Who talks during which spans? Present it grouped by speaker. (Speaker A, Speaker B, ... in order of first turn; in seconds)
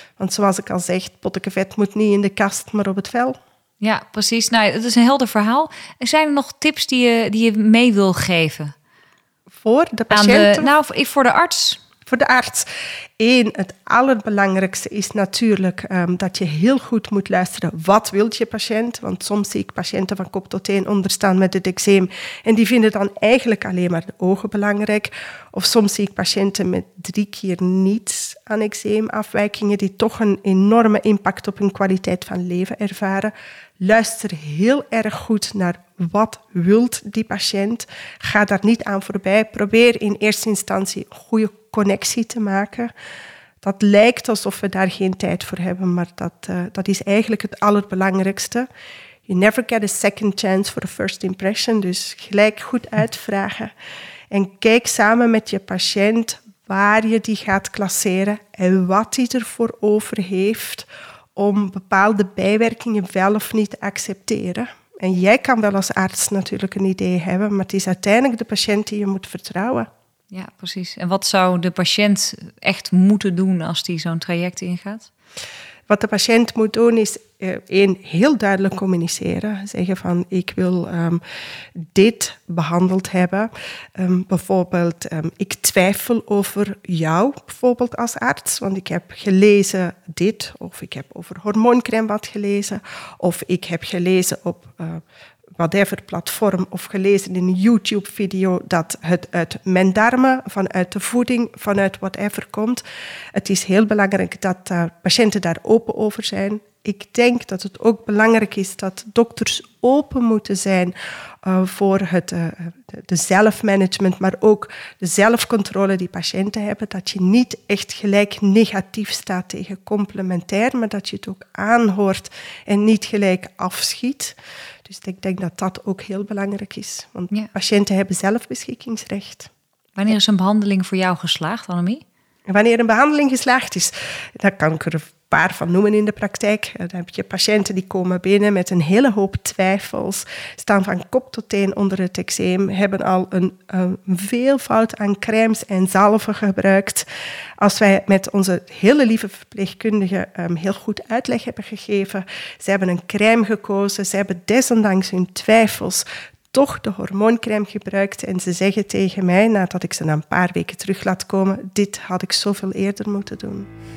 Speaker A: 0.2-3.4, 9.6-10.7, 12.1-12.7, 13.2-42.9, 43.6-48.7, 49.3-53.7, 54.3-69.9, 75.9-81.2, 81.8-95.0, 95.6-102.8, 103.3-129.5, 132.5-147.1, 147.6-163.7
Speaker B: 3.8-8.7, 10.1-11.8, 70.3-75.1, 129.9-132.0